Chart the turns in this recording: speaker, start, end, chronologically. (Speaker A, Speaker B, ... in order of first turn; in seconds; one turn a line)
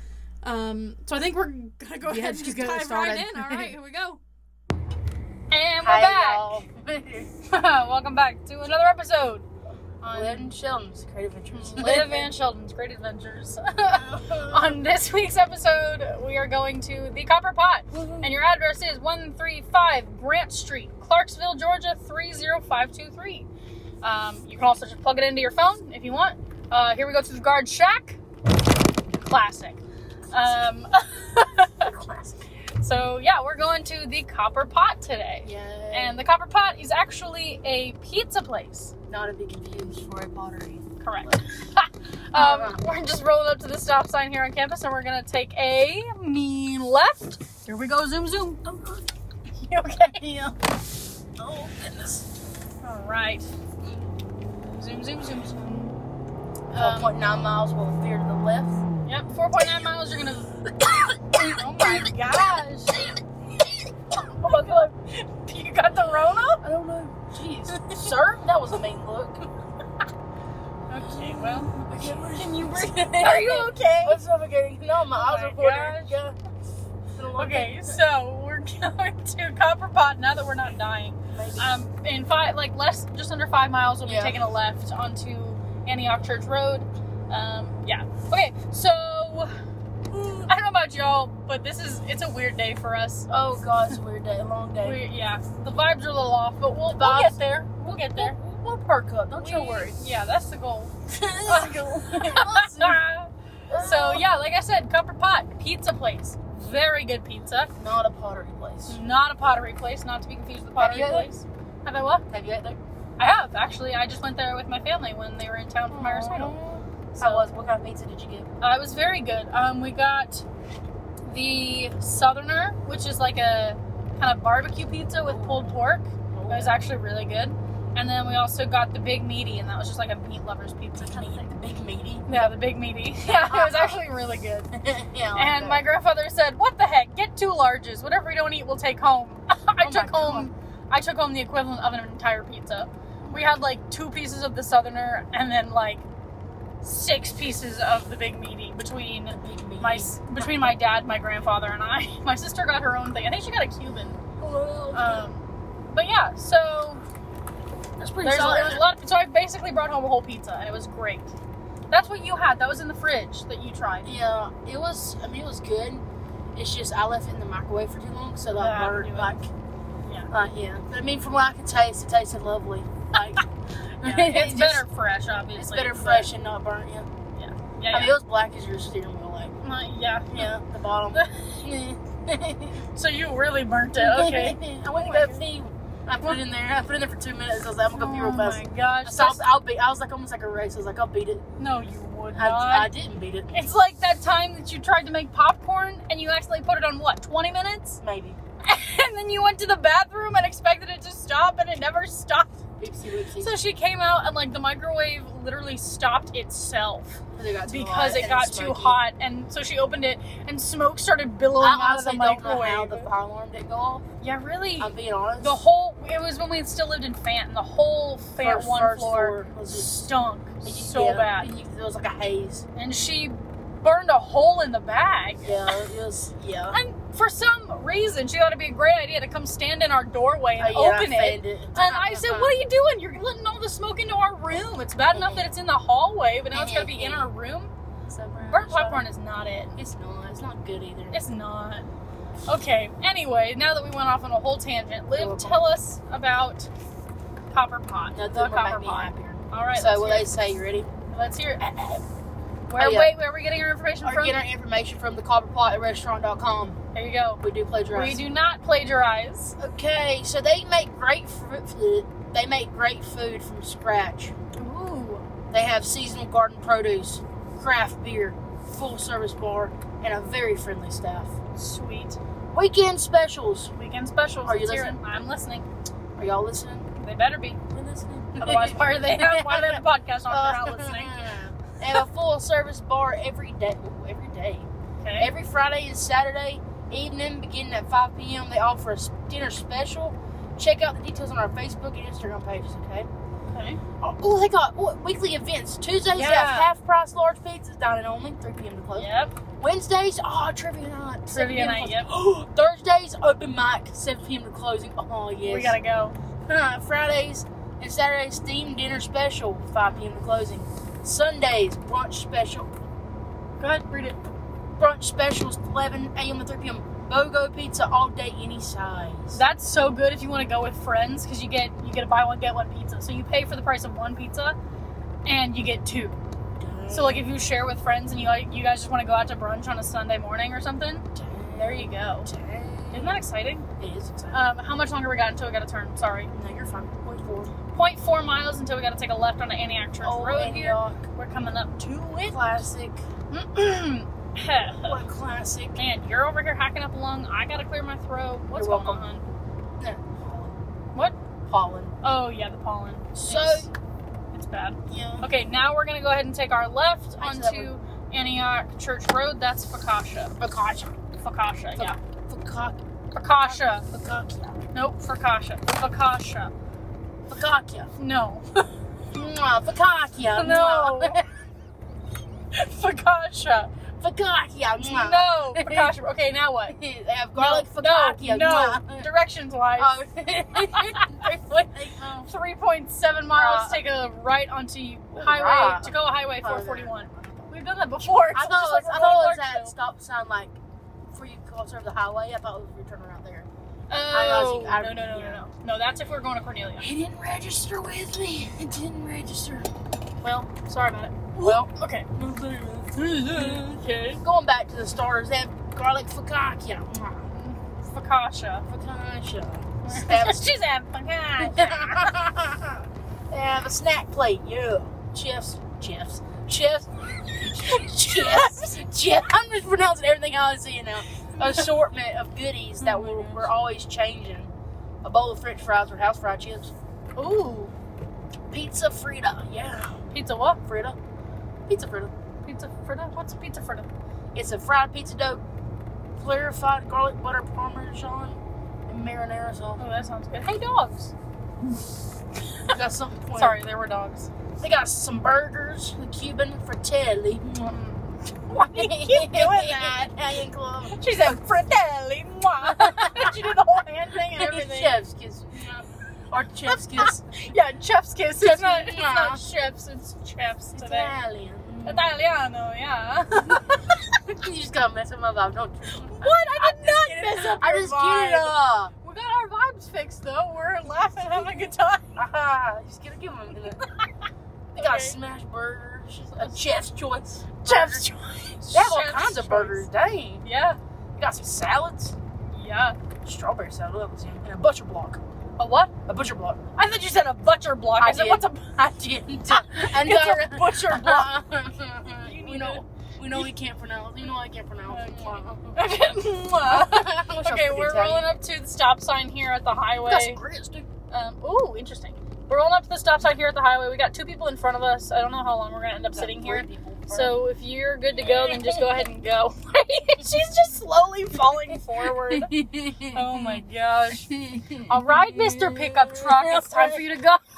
Speaker A: 0.4-4.2
Speaker B: 2.0-3.8
Speaker A: 5.5-6.6
Speaker B: 5.8-7.3
Speaker A: 7.4-9.5
Speaker A: 10.0-10.6
Speaker B: 10.1-12.3
Speaker A: 11.6-23.5
Speaker B: 13.9-14.8
Speaker B: 17.9-18.4
Speaker A: 24.0-28.2
Speaker A: 29.3-31.9
Speaker B: 31.6-32.4
Speaker A: 32.8-38.9
Speaker B: 35.4-36.2
Speaker B: 39.1-41.4
Speaker A: 41.0-48.6
Speaker B: 42.3-42.8
Speaker B: 48.6-49.1
Speaker A: 49.6-50.6
Speaker B: 51.4-52.2
Speaker A: 52.8-53.5
Speaker A: 54.7-55.9
Speaker A: 56.7-57.2
Speaker B: 56.7-58.8
Speaker A: 59.0-60.6
Speaker A: 61.3-63.1
Speaker B: 61.4-62.1
Speaker A: 64.2-66.6
Speaker B: 64.4-64.9
Speaker B: 66.6-69.5
Speaker A: 67.7-68.1
Speaker A: 70.9-74.2
Speaker B: 71.0-76.4
Speaker A: 75.1-76.2
Speaker B: 77.2-78.0
Speaker A: 77.3-89.5
Speaker B: 81.3-81.7
Speaker B: 84.0-84.4
Speaker A: 90.1-93.3
Speaker B: 93.3-95.0
Speaker A: 94.8-98.4
Speaker B: 96.9-100.0
Speaker A: 99.3-100.9
Speaker B: 101.1-103.0
Speaker A: 101.5-107.7
Speaker B: 103.7-104.2
Speaker B: 107.8-109.0
Speaker A: 108.9-112.2
Speaker B: 110.8-111.3
Speaker B: 112.3-112.8
Speaker A: 113.2-116.5
Speaker B: 115.9-118.5
Speaker A: 117.2-117.5
Speaker A: 118.6-120.5
Speaker A: 121.3-131.4
Speaker B: 125.2-126.8
Speaker B: 130.9-132.6
Speaker A: 132.3-134.7
Speaker B: 133.2-134.0
Speaker B: 134.7-135.9
Speaker A: 135.3-146.1
Speaker B: 139.8-140.5
Speaker B: 143.2-143.7
Speaker A: 146.8-154.2
Speaker B: 149.3-150.8
Speaker B: 154.4-155.3
Speaker A: 154.9-157.0
Speaker B: 158.0-158.9
Speaker A: 158.2-161.3
Speaker A: 161.9-164.1
Speaker B: 164.0-166.0
Speaker B: 166.6-169.5
Speaker A: 168.5-169.5
Speaker A: 170.1-170.3
Speaker B: 170.3-173.4
Speaker B: 174.0-174.9
Speaker A: 174.0-176.3
Speaker B: 175.6-177.1
Speaker A: 177.3-178.2
Speaker B: 177.9-179.5
Speaker A: 179.6-180.6
Speaker B: 180.3-182.8
Speaker A: 181.1-181.7
Speaker A: 182.9-185.4
Speaker B: 184.0-191.4
Speaker A: 187.9-189.4
Speaker A: 191.6-192.9
Speaker B: 192.3-193.7
Speaker A: 193.5-198.0
Speaker B: 198.0-198.4
Speaker A: 198.6-202.6
Speaker B: 202.8-203.6
Speaker A: 203.4-213.1
Speaker B: 207.3-209.0
Speaker B: 211.6-214.0
Speaker A: 214.2-221.5
Speaker B: 214.8-215.6
Speaker B: 218.4-220.1
Speaker B: 220.6-222.7
Speaker A: 222.8-225.8
Speaker B: 225.4-226.8
Speaker A: 226.7-237.7
Speaker B: 230.6-232.6
Speaker B: 235.1-235.6
Speaker B: 236.5-237.3
Speaker B: 238.1-239.1
Speaker A: 238.4-239.8
Speaker B: 239.8-241.2
Speaker A: 241.1-241.9
Speaker A: 242.5-246.7
Speaker B: 245.1-245.7
Speaker A: 247.5-250.3
Speaker B: 248.1-250.9
Speaker A: 251.1-251.7
Speaker B: 251.6-252.0
Speaker A: 252.7-254.4
Speaker B: 252.8-253.1
Speaker B: 254.0-256.8
Speaker A: 256.9-259.6
Speaker B: 257.4-258.2
Speaker B: 259.6-264.3
Speaker A: 264.6-265.3
Speaker B: 265.5-271.3
Speaker A: 271.6-272.2
Speaker B: 272.5-273.7
Speaker A: 273.7-275.7
Speaker B: 274.4-275.0
Speaker B: 276.2-276.9
Speaker A: 277.0-277.6
Speaker B: 277.7-293.1
Speaker A: 278.4-281.2
Speaker A: 285.0-285.3
Speaker A: 293.5-293.8
Speaker B: 294.0-305.8
Speaker A: 296.1-296.7
Speaker A: 298.9-299.4
Speaker A: 301.3-302.1
Speaker A: 305.5-306.2
Speaker B: 306.5-312.7
Speaker A: 313.6-314.2
Speaker B: 314.8-319.4
Speaker A: 319.3-324.6
Speaker A: 325.2-326.2
Speaker B: 326.6-327.3
Speaker A: 326.9-332.3
Speaker B: 331.1-333.2
Speaker A: 332.9-333.7
Speaker B: 333.8-334.5
Speaker A: 334.3-336.3
Speaker B: 336.3-337.5
Speaker A: 337.7-342.4
Speaker B: 340.0-341.0
Speaker B: 342.2-343.0
Speaker A: 343.3-345.0
Speaker B: 344.6-345.8
Speaker A: 345.8-349.2
Speaker B: 348.5-349.1
Speaker B: 349.8-350.6
Speaker B: 351.5-351.9
Speaker A: 352.0-353.7
Speaker B: 353.1-353.7
Speaker A: 354.3-360.4
Speaker B: 354.9-355.3
Speaker B: 357.2-357.7
Speaker B: 360.4-360.9
Speaker A: 361.2-362.0
Speaker B: 361.8-362.8
Speaker A: 363.1-363.9
Speaker B: 363.3-364.6
Speaker A: 364.7-366.5
Speaker B: 367.3-367.9
Speaker A: 368.0-368.7
Speaker B: 369.1-371.3
Speaker A: 370.3-371.2
Speaker A: 372.5-373.7
Speaker B: 374.0-375.9
Speaker A: 374.8-376.8
Speaker B: 376.7-379.1
Speaker A: 377.4-381.7
Speaker B: 379.8-382.3
Speaker A: 382.2-389.7
Speaker B: 383.3-383.9
Speaker B: 385.1-390.6
Speaker B: 391.1-393.5
Speaker A: 393.9-396.9
Speaker B: 394.1-395.4
Speaker B: 396.8-399.7
Speaker A: 400.2-402.1
Speaker B: 401.4-407.3
Speaker A: 402.9-404.2
Speaker A: 407.4-408.6
Speaker B: 408.7-410.5
Speaker A: 409.8-412.2
Speaker B: 411.4-424.5
Speaker A: 417.3-418.8
Speaker A: 421.4-421.7
Speaker A: 422.8-423.5
Speaker B: 425.0-426.7
Speaker A: 427.2-427.7
Speaker B: 428.5-430.0
Speaker A: 430.1-430.6
Speaker B: 430.7-431.0
Speaker B: 431.7-432.1
Speaker A: 432.4-433.9
Speaker B: 434.3-435.4
Speaker B: 436.2-439.8
Speaker A: 439.8-441.1
Speaker B: 442.7-443.6
Speaker A: 443.3-444.3
Speaker B: 444.6-447.8
Speaker A: 447.6-450.0
Speaker B: 448.6-451.4
Speaker A: 450.9-455.0
Speaker B: 452.6-453.5
Speaker B: 454.3-457.2
Speaker A: 456.7-461.1
Speaker B: 458.4-459.4
Speaker B: 460.8-462.1
Speaker A: 461.9-464.1
Speaker B: 464.3-468.9
Speaker A: 465.9-472.1
Speaker B: 472.2-473.8
Speaker A: 473.8-474.1
Speaker A: 474.8-475.2
Speaker B: 474.8-478.1
Speaker A: 476.3-476.6
Speaker A: 477.6-479.9
Speaker B: 478.7-480.4
Speaker A: 480.4-480.8
Speaker B: 481.2-482.2
Speaker A: 482.5-483.0
Speaker B: 483.2-485.2
Speaker A: 485.6-486.0
Speaker B: 486.1-486.6
Speaker A: 486.8-488.6
Speaker B: 488.0-498.3
Speaker A: 489.5-491.3
Speaker A: 492.2-493.5
Speaker A: 494.9-500.4
Speaker B: 500.1-500.9
Speaker A: 501.1-512.5
Speaker B: 506.1-507.4
Speaker B: 508.1-509.1
Speaker B: 512.0-517.0
Speaker A: 513.1-514.3
Speaker A: 514.9-517.4